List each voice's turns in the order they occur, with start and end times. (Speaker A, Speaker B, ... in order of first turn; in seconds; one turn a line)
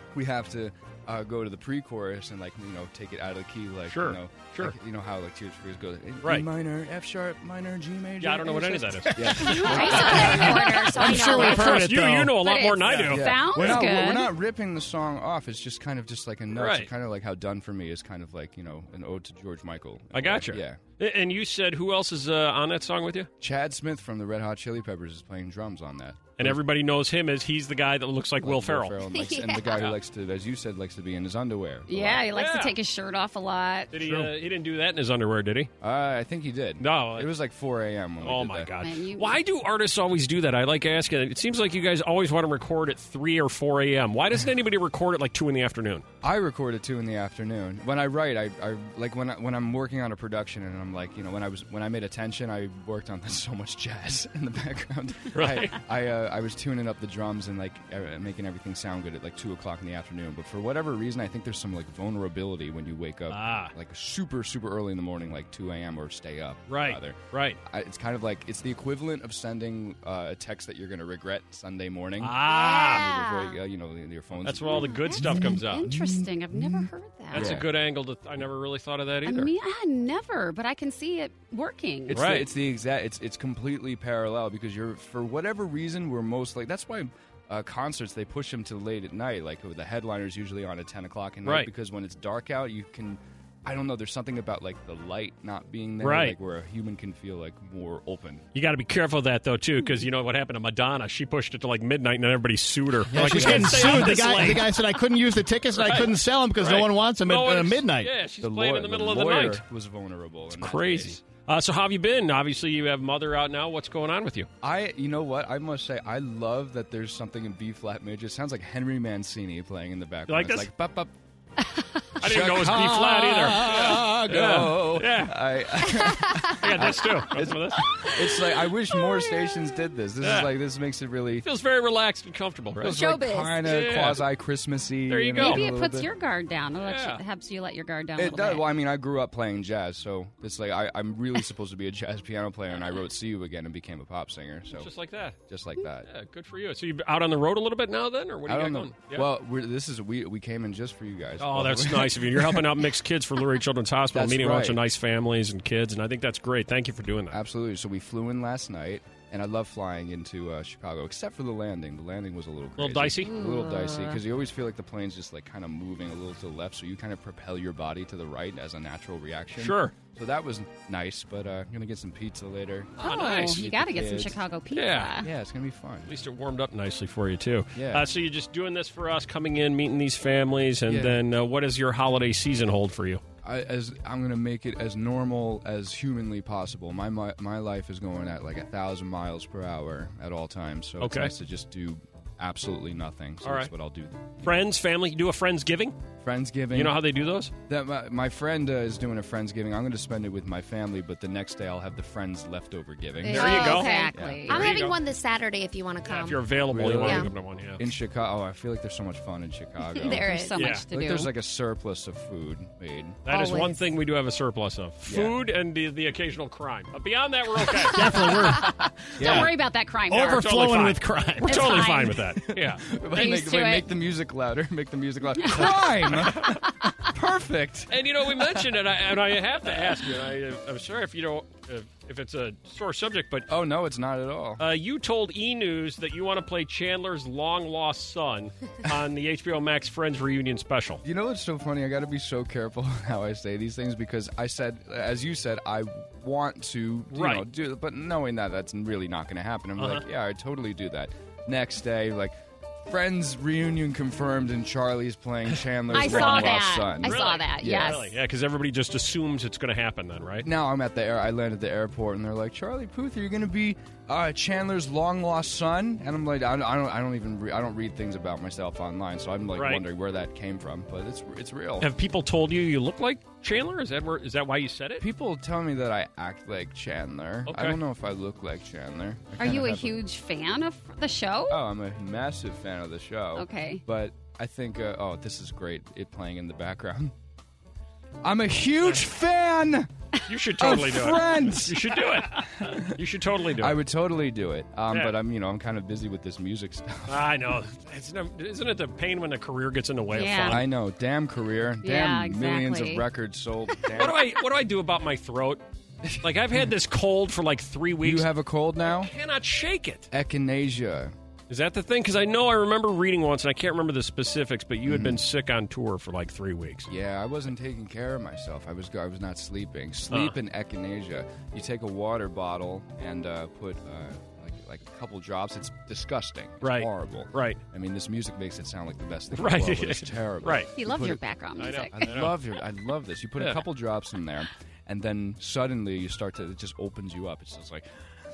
Speaker A: 0.1-11.3
Speaker B: 3.9-4.8
Speaker B: 6.2-6.5
Speaker B: 8.2-13.9
Speaker C: 9.5-11.7
Speaker D: 9.6-11.6
Speaker E: 10.6-12.3
Speaker D: 12.3-14.3
Speaker A: 12.9-20.8
Speaker B: 16.5-16.9
Speaker B: 20.1-23.3
Speaker A: 23.4-26.6
Speaker B: 26.4-29.0
Speaker A: 28.4-32.3
Speaker C: 29.1-29.8
Speaker D: 31.9-34.0
Speaker B: 32.3-32.8
Speaker B: 33.9-35.7
Speaker A: 34.0-34.3
Speaker A: 35.8-38.7
Speaker B: 36.8-37.3
Speaker B: 38.2-46.0
Speaker D: 38.8-39.4
Speaker A: 46.2-67.1
Speaker B: 55.3-55.8
Speaker B: 63.3-63.7
Speaker B: 66.7-67.6
Speaker A: 67.7-77.7
Speaker B: 72.2-73.1
Speaker C: 72.5-73.6
Speaker B: 74.4-76.0
Speaker D: 74.7-77.6
Speaker B: 77.3-79.5
Speaker D: 79.2-82.3
Speaker A: 82.1-98.4
Speaker B: 82.1-82.5
Speaker B: 91.5-91.7
Speaker B: 96.0-96.4
Speaker B: 98.5-105.0
Speaker E: 103.1-108.1
Speaker A: 103.2-104.1
Speaker B: 105.8-109.6
Speaker A: 108.4-111.2
Speaker B: 110.5-114.5
Speaker A: 114.6-121.1
Speaker B: 120.3-120.7
Speaker B: 122.2-125.4
Speaker A: 122.2-131.5
Speaker B: 126.4-128.1
Speaker B: 130.2-130.5
Speaker B: 131.4-134.2
Speaker A: 132.8-136.1
Speaker D: 132.9-133.6
Speaker B: 135.1-135.7
Speaker D: 135.4-138.7
Speaker B: 136.8-137.2
Speaker A: 138.2-144.9
Speaker B: 144.7-145.4
Speaker A: 145.5-146.1
Speaker B: 146.1-149.3
Speaker A: 148.5-152.7
Speaker B: 151.4-157.4
Speaker A: 154.1-154.8
Speaker A: 157.3-174.4
Speaker B: 162.8-163.3
Speaker D: 163.2-164.2
Speaker B: 169.6-169.9
Speaker B: 173.0-173.8
Speaker D: 173.0-175.3
Speaker B: 174.7-175.2
Speaker A: 175.2-176.1
Speaker B: 176.1-183.2
Speaker A: 177.7-178.1
Speaker A: 180.9-181.2
Speaker A: 183.4-194.7
Speaker B: 191.0-191.3
Speaker B: 193.4-193.7
Speaker B: 194.4-196.0
Speaker A: 196.2-197.0
Speaker B: 196.7-197.5
Speaker A: 197.7-204.7
Speaker D: 203.2-204.8
Speaker B: 203.2-205.0
Speaker C: 203.6-207.3
Speaker B: 206.1-207.8
Speaker A: 206.6-213.3
Speaker D: 210.0-211.3
Speaker C: 210.0-210.6
Speaker B: 210.6-210.9
Speaker B: 213.3-218.4
Speaker D: 213.3-213.8
Speaker A: 215.1-215.4
Speaker D: 217.6-220.5
Speaker E: 217.9-219.5
Speaker A: 219.2-219.5
Speaker E: 220.1-221.6
Speaker B: 220.1-223.5
Speaker D: 221.4-222.3
Speaker A: 222.3-229.1
Speaker D: 223.1-223.9
Speaker D: 225.3-226.0
Speaker B: 225.6-226.6
Speaker B: 227.9-233.5
Speaker A: 229.6-230.3
Speaker A: 233.5-234.6
Speaker B: 234.6-241.0
Speaker A: 241.0-252.3
Speaker B: 247.1-247.4
Speaker B: 249.8-250.0
Speaker A: 252.9-258.0
Speaker D: 255.9-258.1
Speaker B: 255.9-260.5
Speaker A: 260.4-271.9
Speaker B: 269.6-269.9
Speaker B: 271.8-275.1
Speaker A: 275.0-280.0
Speaker B: 277.4-277.8
Speaker D: 279.4-281.6
Speaker A: 281.5-287.1
Speaker D: 283.4-283.8
Speaker A: 288.2-289.9
Speaker B: 290.3-293.9
Speaker A: 290.6-292.9
Speaker A: 293.6-297.3
Speaker B: 294.9-295.2
Speaker B: 297.1-300.6
Speaker D: 300.1-300.6
Speaker A: 300.5-304.3
Speaker D: 301.8-303.1
Speaker B: 303.9-305.6
Speaker A: 306.1-306.7
Speaker B: 306.2-308.3
Speaker A: 308.0-309.1
Speaker B: 308.8-310.1
Speaker A: 310.1-311.1
Speaker B: 311.5-316.9
Speaker A: 314.8-315.2
Speaker A: 316.9-337.9
Speaker B: 320.1-320.4
Speaker B: 326.6-327.6
Speaker B: 329.3-330.7
Speaker D: 330.7-332.2
Speaker B: 331.6-332.4
Speaker B: 333.4-333.6